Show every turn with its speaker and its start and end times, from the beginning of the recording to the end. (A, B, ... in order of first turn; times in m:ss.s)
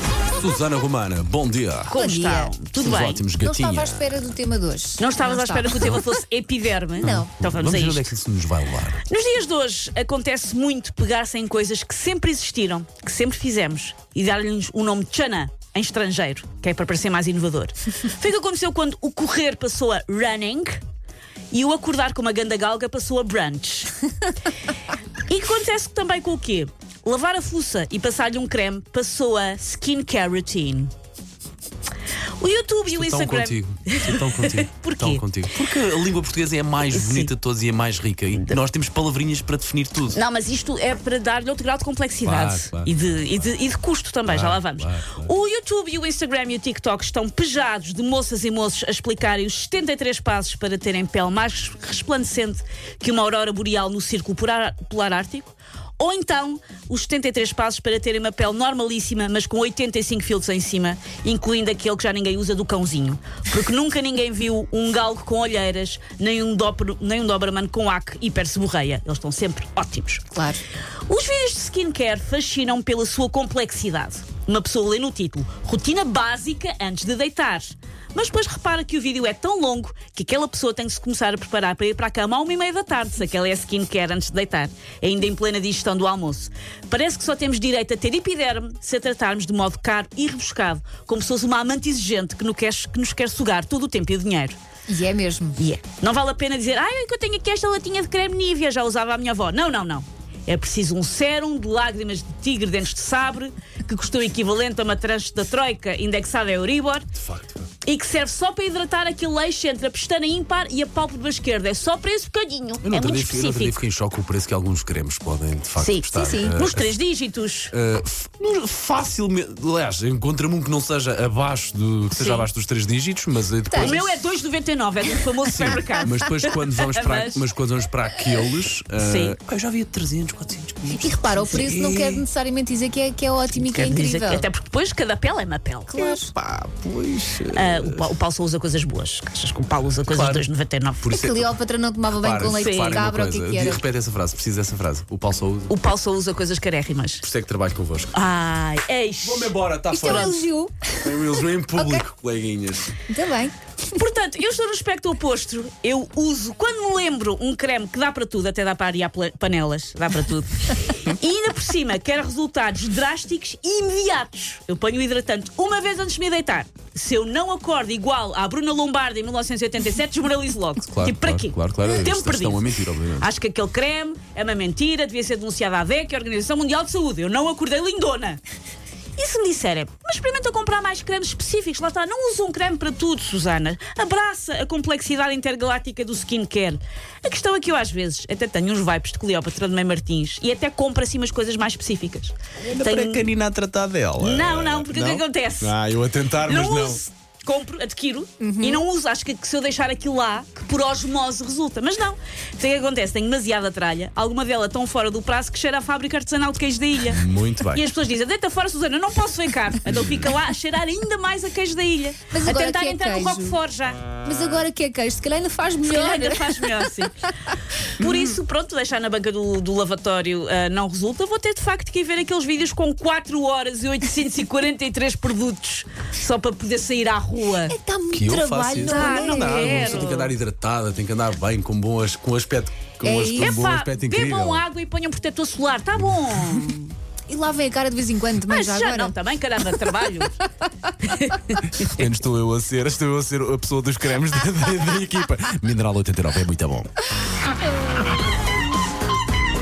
0:00.4-0:01.9 A
0:01.8-0:03.2 B
0:01.9-0:02.5 C
0:02.7-0:04.1 A
0:03.3-0:06.0 C
0:05.0-0:08.1 B
0:07.0-0:07.3 C
0:07.0-0:09.0 A
0:09.0-0:20.8 B
0:21.5-0:23.9 B
0:25.3-0:30.9 B
0:32.4-0:35.2 B
0:32.9-0:40.2 A
0:36.9-0:37.3 B
0:40.1-1:10.2 B
0:42.2-0:42.9 A
0:44.2-0:45.3 A
1:10.3-1:10.6 C
1:11.1-1:34.6 B
1:34.9-1:35.6 C
1:35.6-1:47.0 B
1:47.2-1:47.7 A
1:47.8-1:53.8 B
1:52.8-1:57.0 A
1:55.8-1:57.7 B
1:56.1-1:56.5 C
1:57.7-2:04.1 A
2:02.1-2:02.5 B
2:03.7-2:04.0 C
2:03.8-2:07.4 B
2:05.5-2:12.2 A
2:09.0-2:09.4 B
2:10.9-2:14.4 C
2:13.6-2:16.0 B
2:15.9-2:16.3 C
2:16.0-2:18.0 A
2:17.5-2:21.1 B
2:20.1-2:20.4 A
2:21.0-2:21.6 A
2:21.1-2:23.8 C
2:22.1-2:25.7 A
2:22.4-2:23.0 B
2:25.7-2:27.2 B
2:27.2-2:28.1 A
2:28.1-2:30.4 B
2:29.2-2:30.4 A
2:29.9-2:32.0 C
2:31.0-2:33.0 A
2:33.1-2:33.5 C
2:33.9-2:52.6 B
2:50.8-2:53.3 A
2:53.2-2:58.4 B
2:59.2-3:13.3 B
3:12.6-3:17.0 A
3:14.2-3:15.7 B
3:16.4-3:34.0 B
3:18.4-3:18.8 C
3:27.1-3:27.8 A
3:29.8-3:30.4 A
3:32.3-3:33.6 C
3:34.2-3:37.0 C
3:35.8-3:37.2 B
3:38.0-3:47.8 B
3:47.7-3:50.1 C
3:48.1-3:54.6 A
3:48.8-3:50.3 B
3:53.0-3:53.6 C
3:53.3-3:56.9 B
3:57.3-3:59.2 C
3:58.4-4:00.4 B
4:01.0-4:02.0 B
4:01.7-4:06.9 A